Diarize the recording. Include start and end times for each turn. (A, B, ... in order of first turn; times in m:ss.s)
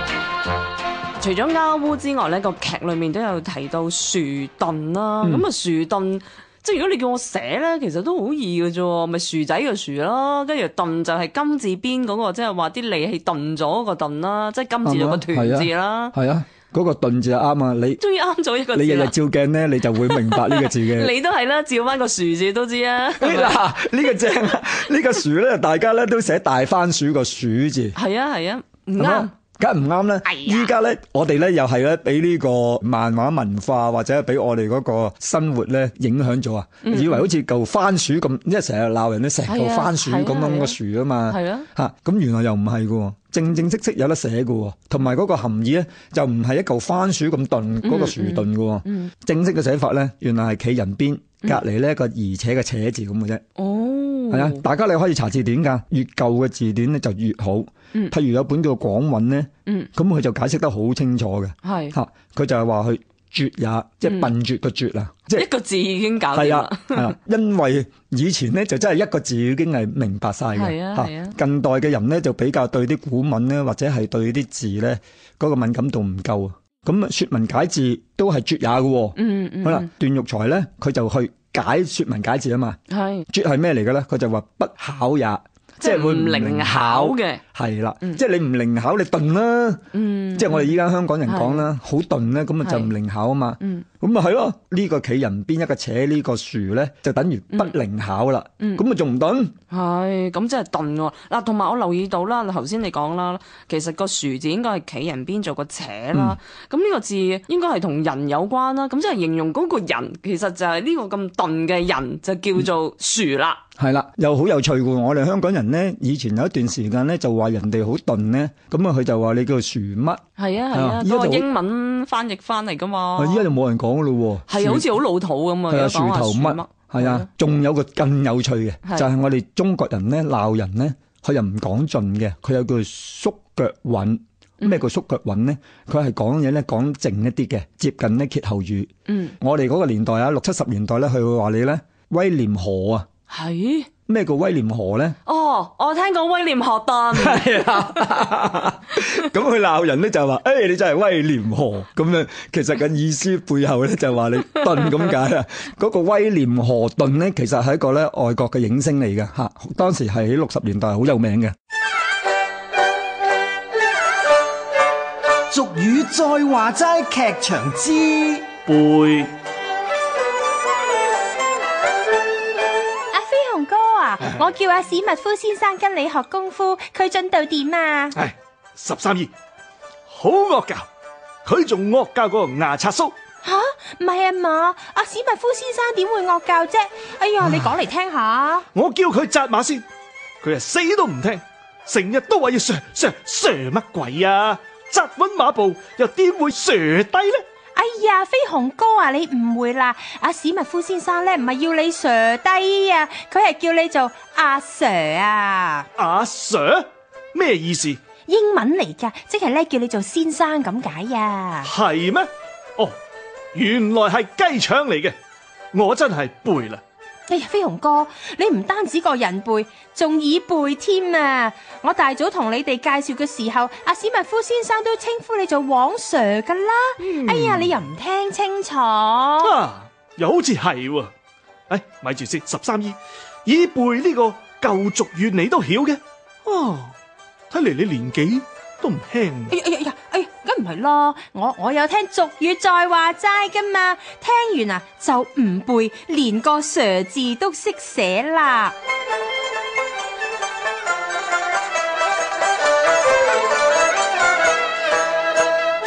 0:01.2-0:16.2 A
0:14.8-0:18.0 B
0:18.0-0:19.1 A
0:18.7-0:21.1 B
0:20.1-0:23.6 A
0:23.2-0:28.0 B
0:28.0-0:29.3 A
0:29.0-0:53.4 B
0:36.8-0:37.3 A
0:39.5-0:40.8 A
0:41.3-0:41.7 A
0:47.8-0:49.1 A
0:53.6-0:54.6 A
0:54.3-1:05.5 B
1:01.6-1:02.0 A
1:05.3-1:07.1 A
1:06.3-1:22.8 B
1:10.6-1:11.4 A
1:19.2-1:19.9 A
1:22.9-1:23.3 A
1:23.3-1:39.6 B
1:25.8-1:27.4 A
1:29.9-1:30.7 A
1:31.3-1:31.7 A
1:32.6-1:32.9 A
1:39.7-1:53.6 A
1:53.8-2:01.5 B
2:00.4-2:03.5 A
2:03.2-2:04.9 B
2:04.5-2:07.3 A
2:05.7-2:23.1 B
2:19.1-2:19.4 A
2:23.3-2:23.9 A
2:24.1-2:25.2 B
2:25.3-2:27.8 A
2:27.1-2:41.6 B
2:45.5-2:48.5 C
2:48.7-2:49.3 D
2:53.1-2:58.2 E
2:58.2-2:59.3 D
3:00.1-3:00.9 D
3:01.4-3:03.1 D
3:03.4-3:08.7 E
3:08.7-3:09.8 D
3:10.4-3:17.4 D
3:17.8-3:25.9 E
3:26.0-3:28.0 D
3:28.3-3:31.7 E
3:31.6-3:33.0 D
3:33.5-3:35.2 D
3:35.7-3:36.8 D
3:37.3-3:49.5 E
3:47.0-3:47.7 D
3:49.4-3:51.1 D
3:51.7-3:56.9 D
3:57.5-3:59.5 D
3:59.5-4:08.7 E